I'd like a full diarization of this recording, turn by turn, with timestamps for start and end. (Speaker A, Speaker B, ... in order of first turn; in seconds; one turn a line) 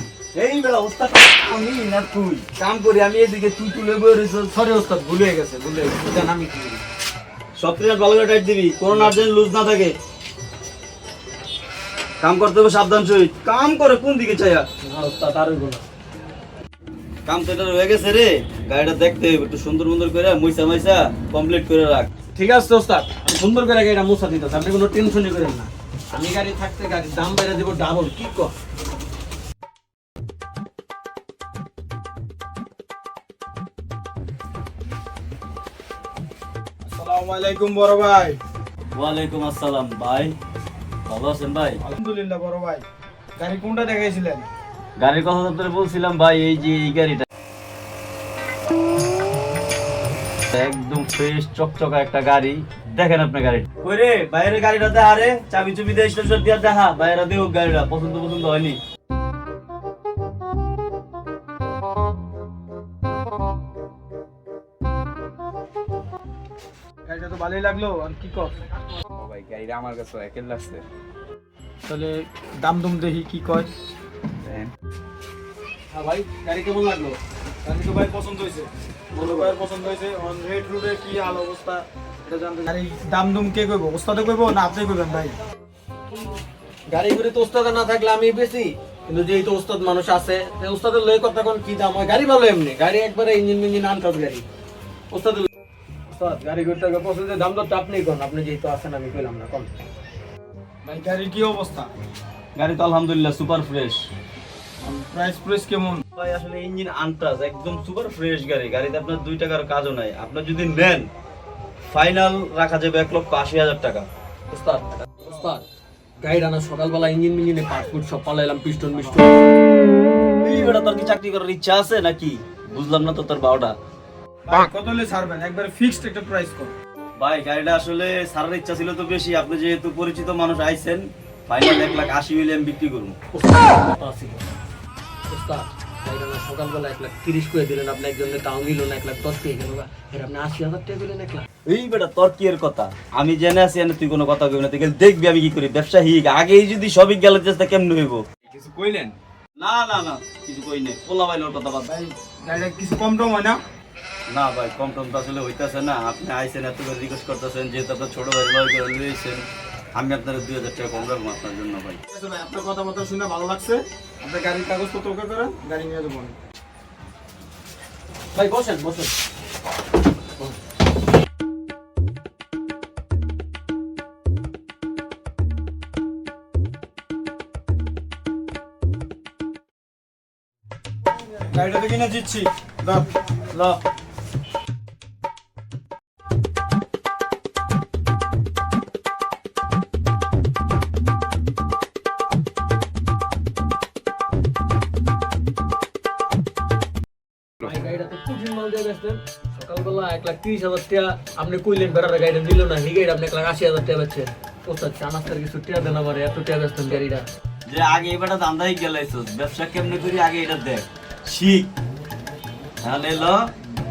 Speaker A: 0.3-4.5
Speaker B: 4.5-6.8
Speaker A: 7.6-10.0
Speaker A: 12.2-14.7
Speaker B: 14.8-15.8
Speaker A: 17.3-22.1
Speaker B: 22.3-28.5
Speaker C: 36.9-38.4
Speaker A: 39.0-40.4
Speaker A: 41.1-41.8
Speaker C: 41.8-42.8
Speaker C: 43.4-44.5
Speaker A: 45.0-47.2
Speaker A: 50.5-58.8
Speaker C: 67.1-68.7
Speaker D: 69.2-70.8
Speaker C: 71.9-73.7
Speaker B: 75.9-77.2
Speaker C: 77.6-85.4
Speaker B: 79.2-79.5
Speaker B: 86.9-94.5
Speaker B: 95.1-95.5
Speaker B: 96.1-99.7
Speaker C: 100.8-101.9
Speaker A: 102.6-104.1
Speaker C: 104.8-106.0
Speaker A: 106.2-111.1
Speaker A: 111.9-114.1
Speaker B: 114.5-115.7
Speaker B: 116.2-119.3
Speaker A: 120.4-123.8
Speaker C: 124.5-126.7
Speaker A: 127.2-133.2
Speaker B: 133.3-134.5
Speaker B: 135.3-141.5
Speaker A: 141.7-148.2
Speaker D: 148.6-149.2
Speaker A: 149.6-151.9
Speaker C: 151.8-153.6
Speaker A: 154.3-159.4
Speaker A: 160.0-162.0
Speaker C: 162.1-166.4
Speaker B: 168.3-169.1
Speaker C: 181.5-183.8
Speaker B: 197.6-207.3
Speaker A: 207.7-211.7
Speaker A: 212.8-213.5